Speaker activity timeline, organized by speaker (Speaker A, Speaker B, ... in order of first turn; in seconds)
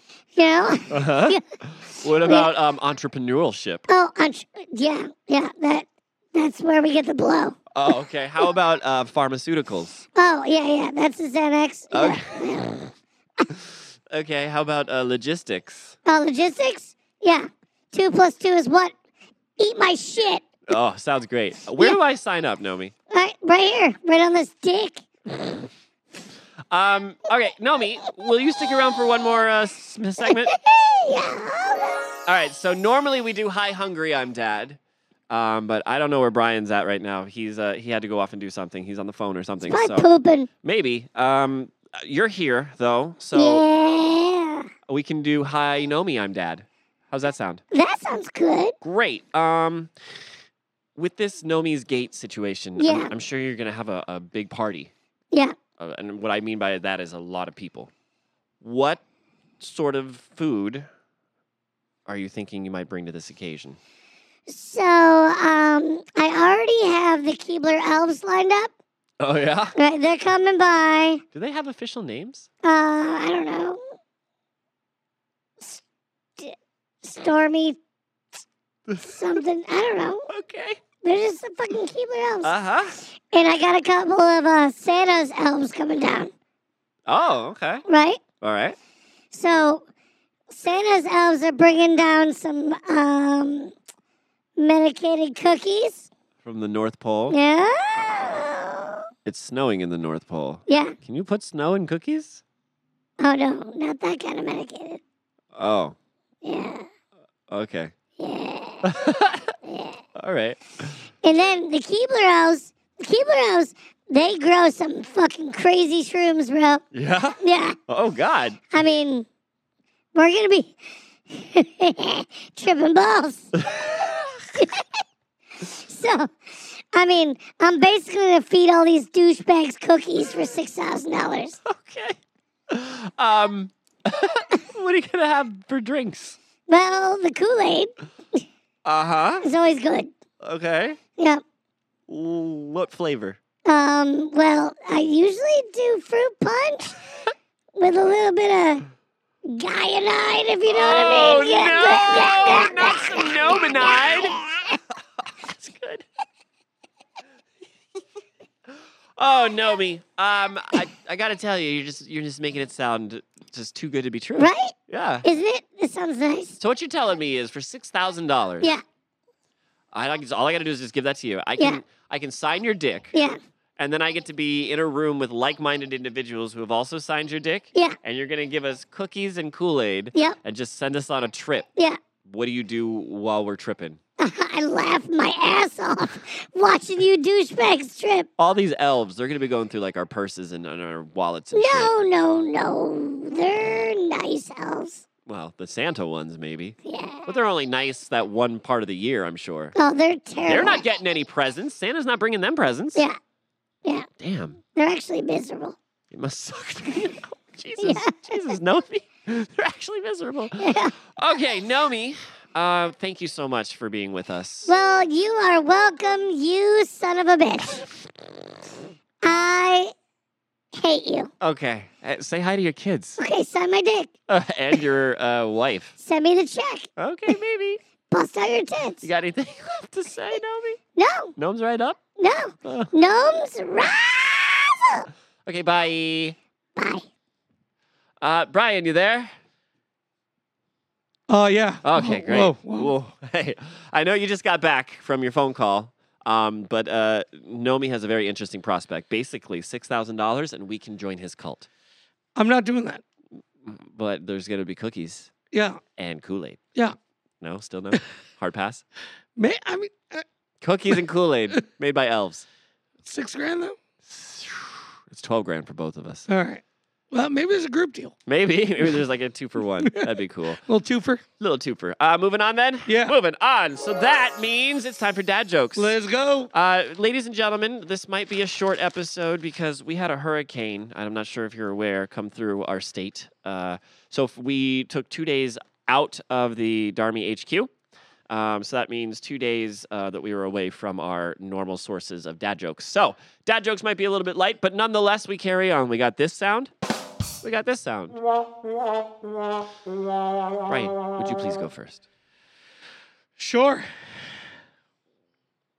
Speaker A: 0.4-1.4, 2.2-2.5, 3.9-7.6, 10.2-13.5, 16.1-18.9, 19.6-20.4, 23.1-25.1, 30.2-32.0, 39.7-40.5, 43.4-44.7, 47.7-48.8, 52.8-53.1, 64.5-68.7, 69.8-71.2, 72.6-73.8, 76.4-77.8, 79.0-80.3, 81.0-82.5, 83.3-86.3, 87.9-88.2, 89.3-89.8, 90.5-93.7, 94.6-96.1, 97.3-99.0, 100.7-101.0, 103.2-105.0, 106.4-106.9, 108.2-109.0, 109.7-110.0, 111.2-116.8, 117.4-117.8, 118.7-119.3, 120.2-120.7, 121.3-124.8, 125.6-126.3, 126.9-131.6, 136.7-138.4, 139.4-140.1, 143.7-147.0, 147.8-148.9, 149.4-154.3, 164.4-166.6, 173.1-173.4, 184.2-188.3, 191.5-195.1, 196.8-197.4, 199.8-200.8, 204.8-205.8, 207.8-208.6, 210.6-211.0, 214.7-217.9, 219.2-219.9, 220.7-221.3, 223.2-224.1, 226.0-226.9, 228.1-229.1, 231.0-231.3, 232.2-235.1, 236.8-237.1
Speaker B: 0.9-3.9, 7.7-10.0, 11.9-12.3, 13.5-16.0, 20.7-22.9, 26.7-30.5, 32.3-34.8, 35.3-40.1, 40.6-43.6, 44.9-47.6, 48.8-49.9, 51.0-54.9, 55.8-57.9, 58.6-59.0, 59.6-60.9, 62.1-63.8, 69.2-69.8, 71.3-72.5, 78.9-79.1, 80.3-80.8, 82.4-83.0, 87.1-87.8, 88.4-88.8, 96.4-97.4, 99.2-102.4, 105.5-106.0, 107.5-107.9, 108.8-109.5, 110.2-111.0, 116.9-118.7, 123.6-124.5, 131.7-132.2, 132.7-136.4, 138.8-139.5, 140.4-141.0, 142.1-143.4, 150.7-154.4, 155.2-156.1, 159.2-165.2, 166.6-168.8, 169.9-173.1, 173.8-181.7, 182.2-184.0, 188.4-191.9, 195.3-199.8, 200.5-203.1, 204.2-204.6, 206.1-214.7, 221.4-223.2, 224.3-225.9, 227.0-227.8, 229.0-230.8, 231.4-232.0, 232.7-232.9, 235.5-236.4, 238.2-239.3, 241.8-251.7, 253.7-255.3, 256.0-256.6, 257.4-258.8, 260.6-262.4, 264.1-266.3, 268.3-270.6, 271.4-275.9, 276.5-287.7, 288.3-296.7, 297.4-298.2, 300.7-302.1
Speaker C: 241.3-242.9, 252.4-253.0, 255.5-255.8, 259.4-260.2, 263.0-263.8, 266.3-268.1, 269.8-270.1, 270.6-271.2, 272.9-273.1, 275.8-276.5, 303.4-303.9